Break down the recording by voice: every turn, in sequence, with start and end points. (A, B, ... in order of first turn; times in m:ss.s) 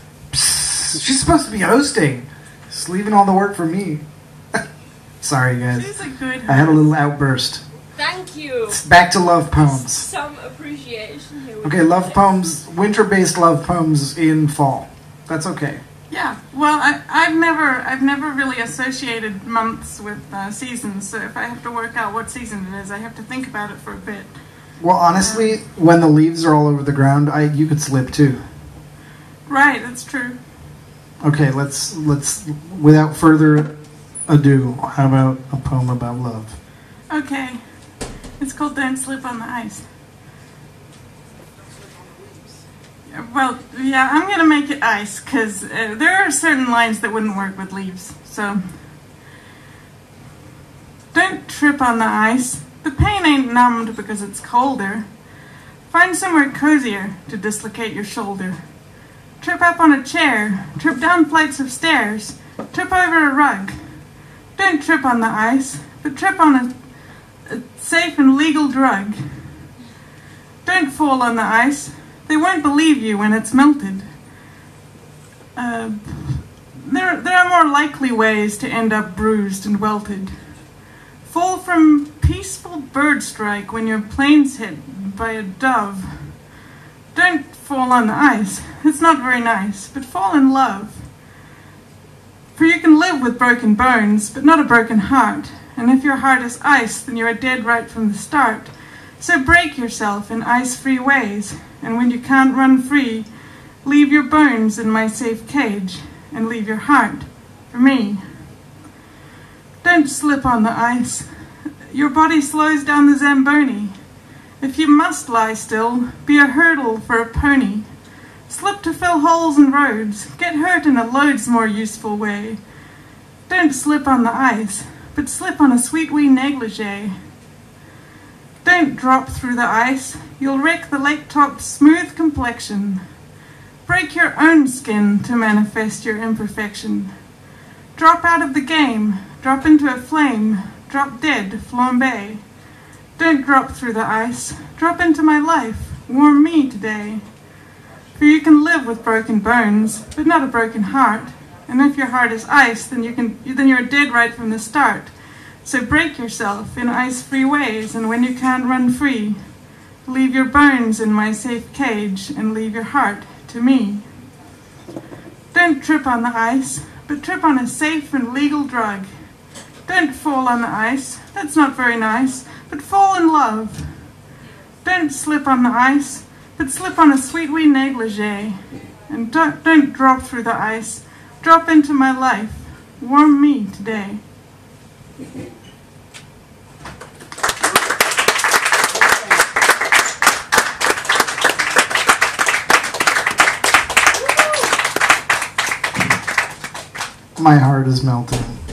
0:00.3-0:04.0 A
0:05.2-0:06.0 A
0:05.7-0:06.9 B
0:06.5-0:07.6 A
0:08.0-0:08.8 C
0:08.7-0:10.1 A
0:09.8-0:12.2 C
0:11.6-0:15.8 A
0:16.1-0:24.4 B
0:24.8-0:28.4 A
0:25.1-0:25.6 B
0:29.5-0:30.4 B
0:31.2-0:33.8 A
0:34.3-0:36.6 A
0:37.1-0:37.6 B
0:38.4-0:39.8 B
0:43.1-0:48.6 B
0:51.1-0:55.2 B
0:55.9-0:58.6 B
0:59.4-1:03.8 B
1:04.5-1:06.8 B
1:07.4-1:09.2 B
1:10.6-1:14.1 B
1:15.6-1:20.4 B
1:21.2-1:26.4 B
1:27.1-1:31.1 B
1:32.6-1:48.2 B
1:49.8-1:51.3 B
1:51.8-1:53.9 B
1:54.6-1:57.9 B
1:58.5-2:02.6 B
2:03.5-2:07.2 B
2:08.6-2:13.0 B
2:13.8-2:17.2 B
2:17.9-2:22.5 B
2:23.2-2:27.3 B
2:28.2-2:39.4 B
2:40.0-2:44.1 B
2:45.5-2:49.1 B
2:49.9-2:53.9 B
2:54.8-3:04.2 B
3:17.4-3:18.6 A